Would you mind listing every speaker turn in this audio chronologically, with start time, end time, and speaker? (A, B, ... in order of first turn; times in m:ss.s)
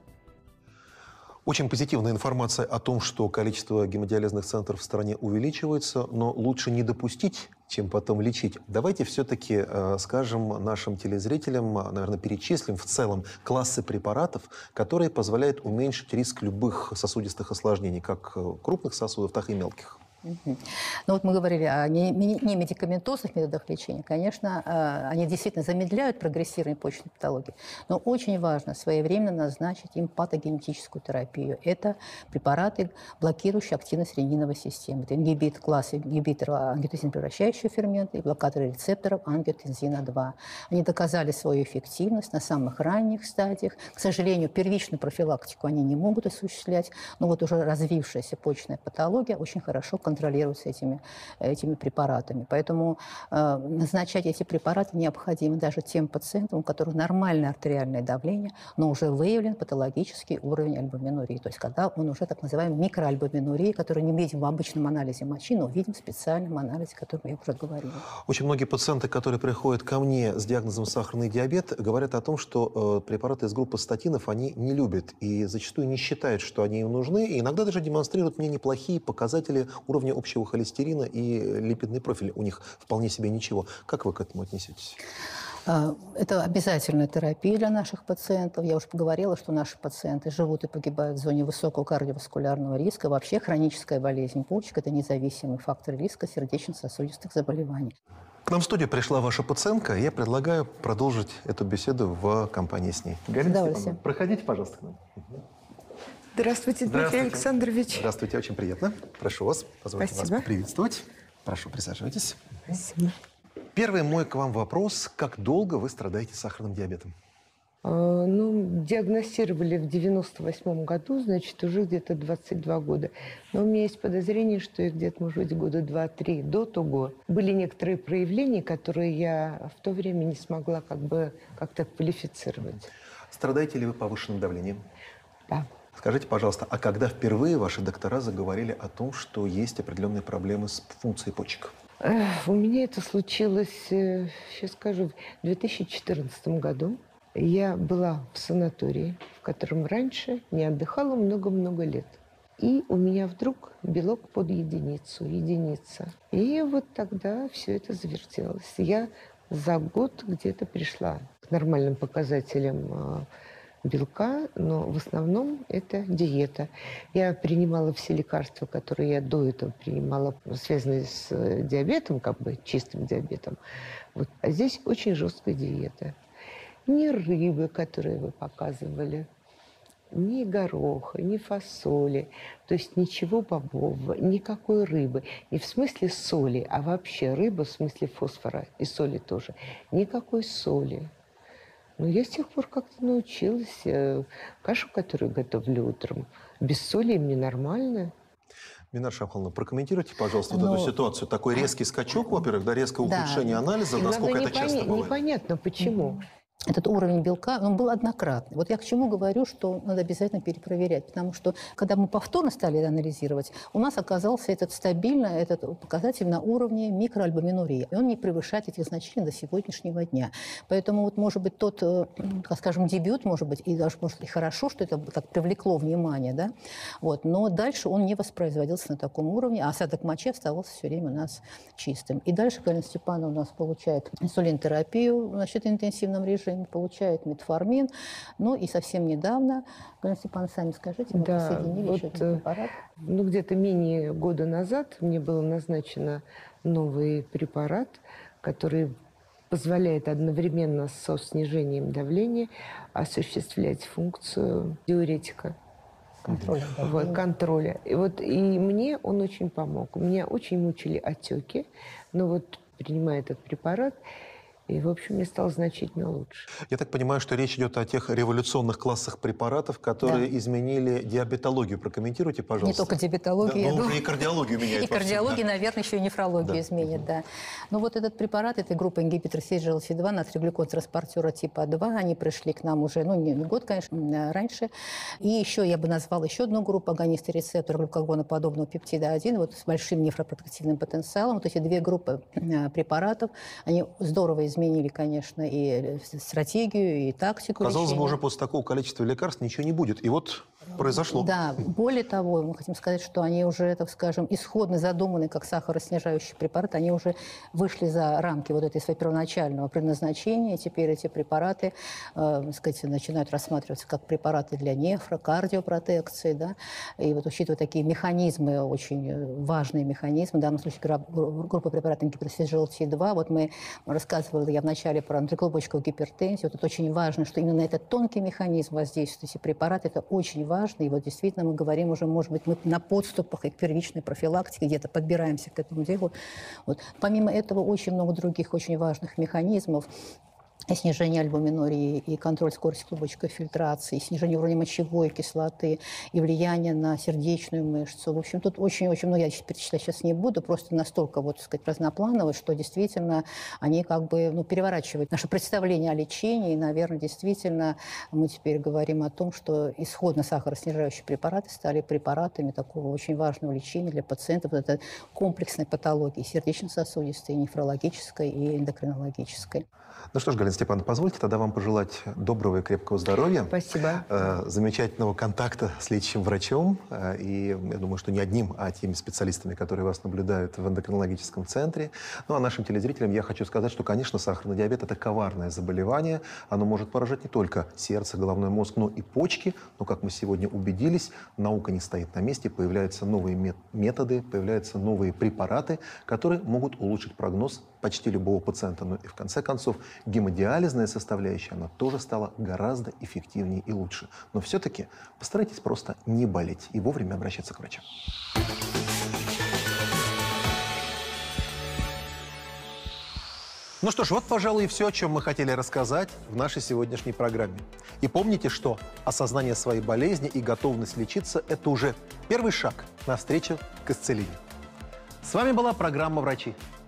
0:01.5-0:20.0 A
0:20.2-1:08.1 B
1:08.2-1:25.0 A
1:25.7-1:38.0 B
1:38.5-1:45.4 A
1:43.4-1:44.0 B
1:46.4-1:48.1 C
1:46.9-1:52.4 A
1:50.0-1:50.5 C
1:52.7-1:53.2 C
1:53.8-1:57.1 A
1:57.8-2:12.9 C
2:13.3-2:14.8 A
2:16.0-2:21.7 A
2:22.0-2:43.3 C
2:43.8-2:53.6 C
2:54.1-2:56.2 C
2:56.9-2:59.3 C
3:00.1-3:11.1 C
3:12.0-3:18.1 C
3:18.9-3:25.2 A
3:20.5-3:20.9 B
3:23.0-3:23.6 B
3:23.9-3:26.2 C
3:26.7-4:02.8 B
4:01.1-4:02.4 C
4:03.0-4:09.0 C
4:09.5-4:15.6 C
4:16.2-4:17.2 B
4:16.8-4:24.0 C
4:24.7-4:26.5 C
4:26.7-4:35.4 A
4:32.6-4:34.0 B
4:34.6-4:44.7 B
4:45.2-4:58.2 B
4:57.6-5:01.3 A
5:00.8-5:36.1 B
5:36.7-5:39.9 B
5:40.7-6:09.6 B
6:10.1-6:13.6 A
6:13.5-6:14.1 C
6:14.1-6:47.8 A
6:53.8-7:04.4 A
7:05.2-7:06.6 A